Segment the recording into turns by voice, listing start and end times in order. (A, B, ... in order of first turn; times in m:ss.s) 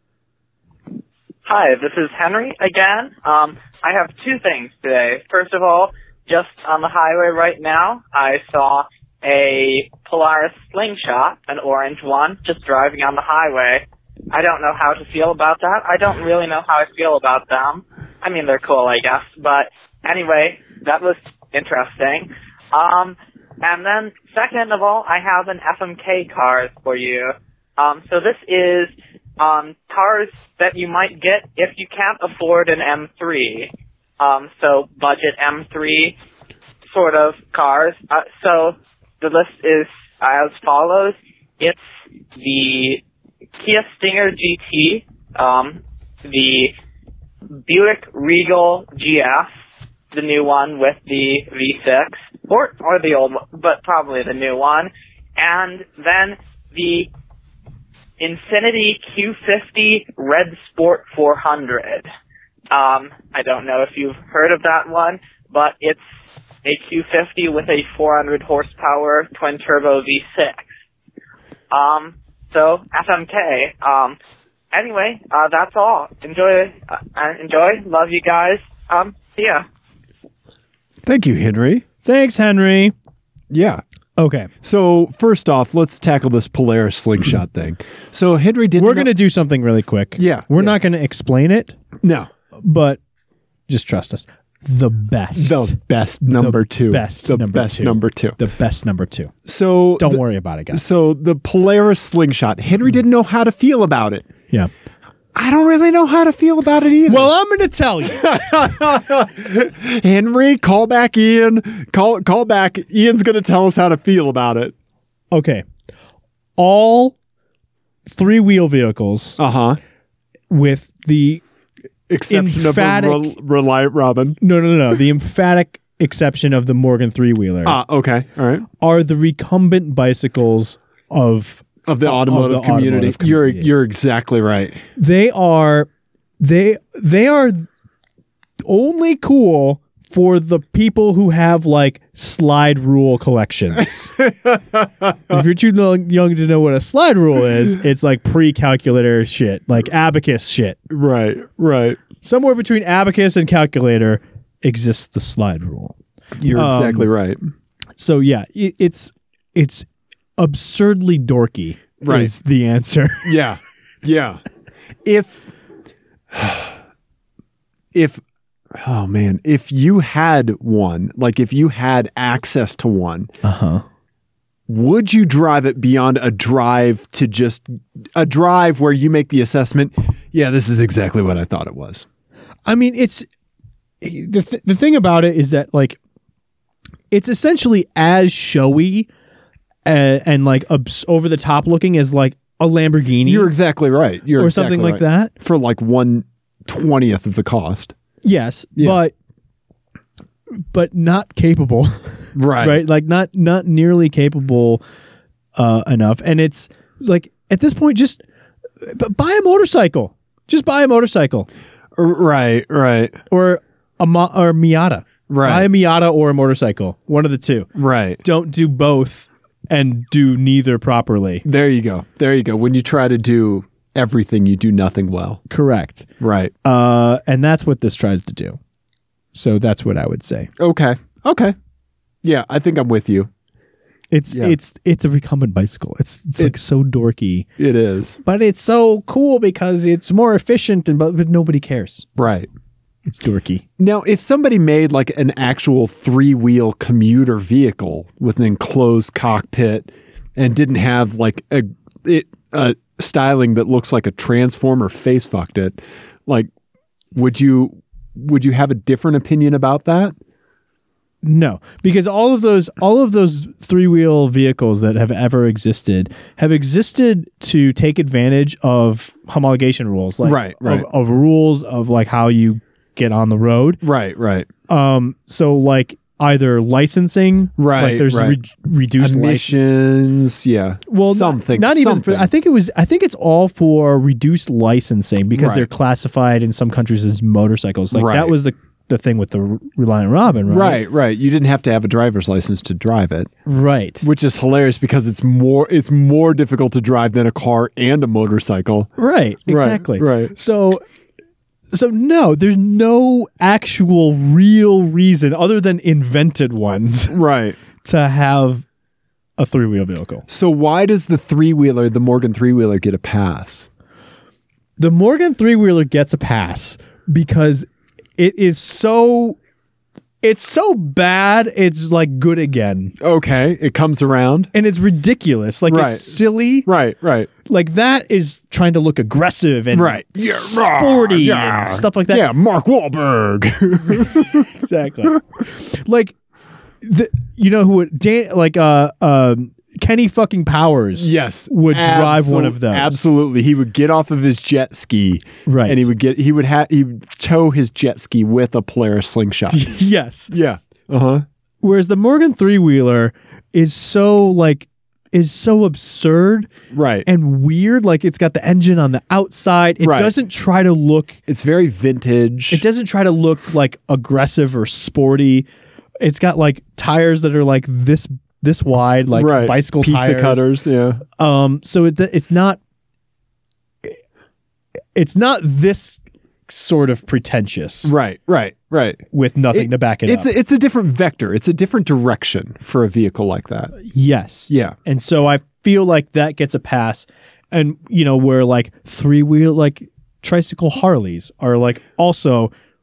0:01.5-0:36.2 A
0:36.9-0:41.8 A
0:42.4-0:43.0 A
0:43.6-0:46.7 A
0:47.7-0:49.5 A
0:50.1-0:57.1 A
0:58.2-1:02.1 A
1:02.7-1:06.0 A
1:06.6-1:10.7 A
1:11.7-1:14.2 A
1:14.7-1:19.6 A
1:21.0-1:21.8 B
1:22.0-1:22.9 C
1:23.5-1:23.8 B
1:24.2-1:24.5 C
1:24.6-1:29.1 B
1:28.8-1:31.8 C
1:30.2-1:30.8 B
1:32.0-1:32.3 B
1:32.6-1:33.0 C
1:33.7-1:39.3 C
1:35.4-1:38.4 B
1:39.5-1:44.3 B
1:40.0-1:40.8 C
1:45.4-1:47.3 B
1:47.1-1:48.3 C
1:48.0-1:54.7 B
1:55.3-1:55.6 C
1:56.6-1:57.2 C
1:58.1-1:59.4 C
1:59.4-1:59.8 B
2:00.5-2:01.4 C
2:02.1-2:04.4 B
2:02.3-2:03.3 C
2:04.4-2:07.8 C
2:07.6-2:08.7 B
2:08.8-2:13.7 C
2:11.9-2:14.8 B
2:15.0-2:15.9 C
2:16.4-2:17.7 C
2:18.6-2:24.1 C
2:23.8-2:25.4 B
2:25.3-2:30.8 C
2:30.9-2:32.0 B
2:32.2-2:36.0 C
2:36.4-2:37.5 B
2:36.5-2:37.1 C
2:38.0-2:39.9 C
2:40.4-2:43.4 C
2:42.0-2:42.3 B
2:43.2-2:44.4 B
2:45.0-2:45.5 B
2:46.3-2:46.8 B
2:47.9-2:48.2 B
2:48.7-2:53.3 B
2:53.4-2:53.8 C
2:54.7-3:02.1 B
3:02.7-3:03.3 C
3:04.0-3:06.0 C
3:07.1-3:09.1 C
3:09.9-3:13.5 C
3:13.2-3:17.9 B
3:14.4-3:15.3 C
3:18.2-3:19.1 C
3:20.7-3:24.8 C
3:22.4-3:22.8 B
3:25.6-3:28.2 C
3:28.8-3:31.5 C
3:32.0-3:33.2 B
3:33.3-3:37.7 C
3:35.3-3:35.7 B
3:37.8-3:38.2 B
3:38.2-3:41.4 C
3:41.4-3:45.4 B
3:45.5-3:46.1 C
3:46.2-3:46.5 B
3:46.6-3:48.6 C
3:49.3-3:50.5 C
3:50.6-3:51.6 B
3:52.2-3:53.3 B
3:54.1-3:57.5 C
3:54.3-3:54.6 B
3:57.6-3:58.2 B
3:58.2-4:02.1 C
4:02.2-4:02.5 B
4:03.1-4:03.6 C
4:03.8-4:16.5 B
4:17.1-4:20.2 B
4:21.2-4:33.8 C
4:30.2-4:30.9 B
4:33.8-4:34.5 B
4:34.7-4:39.5 C
4:37.6-4:38.4 B
4:39.0-4:42.3 B
4:40.9-4:50.8 C
4:45.3-4:45.7 B
4:47.9-4:48.4 B
4:50.5-4:53.3 B
4:53.5-4:54.1 C
4:54.0-4:58.9 B
4:59.0-5:00.8 C
4:59.5-5:00.3 B
5:01.7-5:07.2 C
5:07.1-5:07.6 B
5:07.8-5:08.6 C
5:09.4-5:10.2 C
5:10.3-5:13.7 B
5:14.8-5:19.4 C
5:20.2-5:22.9 C
5:23.0-5:24.5 B
5:24.5-5:26.7 C
5:25.7-5:27.3 B
5:27.5-5:32.3 C
5:29.7-5:34.5 B
5:34.5-5:36.2 C
5:36.8-5:43.1 C
5:41.0-5:49.6 B
5:45.5-5:45.9 C
5:49.5-5:50.3 C
5:50.3-5:51.2 B
5:51.6-5:56.5 C
5:56.7-5:57.1 B
5:57.1-6:01.2 C
5:59.8-6:00.1 B
6:01.3-6:02.6 B
6:02.5-6:05.5 C
6:06.0-6:10.5 C
6:09.2-6:11.0 B
6:11.2-6:12.6 C
6:15.0-6:18.0 C
6:17.8-6:23.7 B
6:19.1-6:20.3 C
6:23.8-6:32.5 C
6:24.5-6:24.8 B